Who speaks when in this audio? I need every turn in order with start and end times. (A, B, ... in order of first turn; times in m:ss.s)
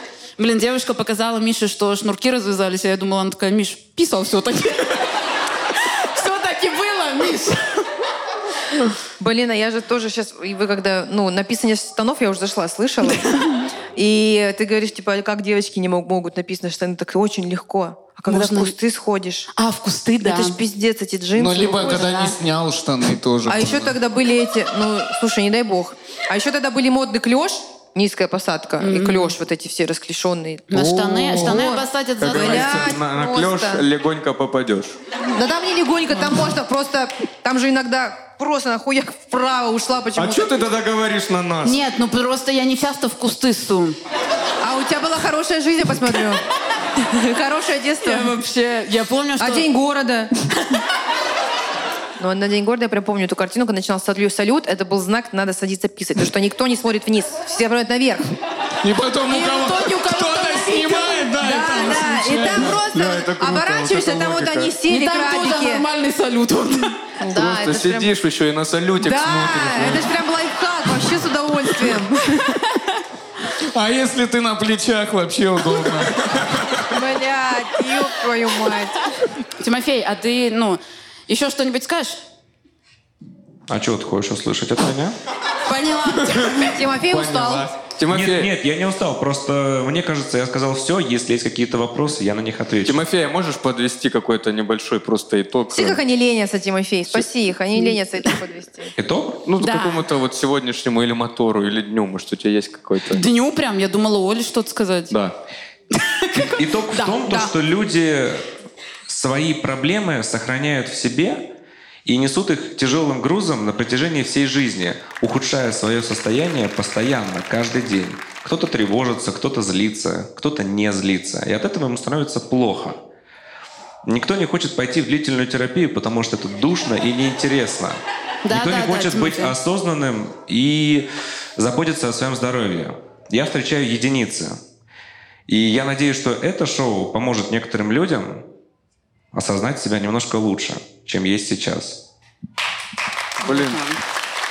0:00.4-0:05.0 A
0:05.8-0:07.8 A
0:09.2-0:19.5 B
0:18.3-0:18.7 A
0:19.6-0:20.6 A
0:20.2-0:22.3 B
0:21.3-0:23.9 C
0:23.5-0:30.8 B
0:28.8-0:29.3 A
0:30.7-0:32.9 A
0:30.7-0:31.8 C
0:31.3-0:33.8 B
0:32.2-0:35.0 D
0:35.3-0:40.6 B
0:36.1-0:36.5 A
0:40.2-0:41.8 D
0:41.6-0:44.0 A
0:44.6-0:46.4 B
0:47.0-0:48.3 B
0:48.0-0:49.7 A
0:49.4-0:50.3 B
0:52.2-0:58.3 B
0:58.8-1:02.8 C
0:59.3-1:01.3 A
1:01.4-1:05.8 B
1:02.8-1:04.8 D
1:04.9-1:07.0 A
1:07.2-1:08.1 B
1:07.3-1:10.1 D
1:09.0-1:12.6 B
1:13.6-1:16.9 C
1:16.9-1:19.1 B
1:19.6-1:22.2 A
1:23.7-1:25.1 E
1:25.6-1:26.7 A
1:26.5-1:27.7 B
1:27.1-1:28.5 D
1:28.1-1:33.0 E
1:32.8-1:36.0 D
1:35.7-1:38.9 B
1:39.0-1:39.4 E
1:39.4-1:43.2 D
1:39.6-1:40.0 A
1:43.1-1:45.1 A
1:45.1-1:45.4 D
1:45.9-1:47.5 A
1:46.4-1:48.4 E
1:49.1-1:51.5 E
1:52.0-2:03.0 E
2:04.0-2:14.6 E
2:08.4-2:09.6 A
2:15.5-2:18.4 E
2:19.3-2:22.0 E
2:23.4-2:23.8 D
2:23.4-2:24.0 A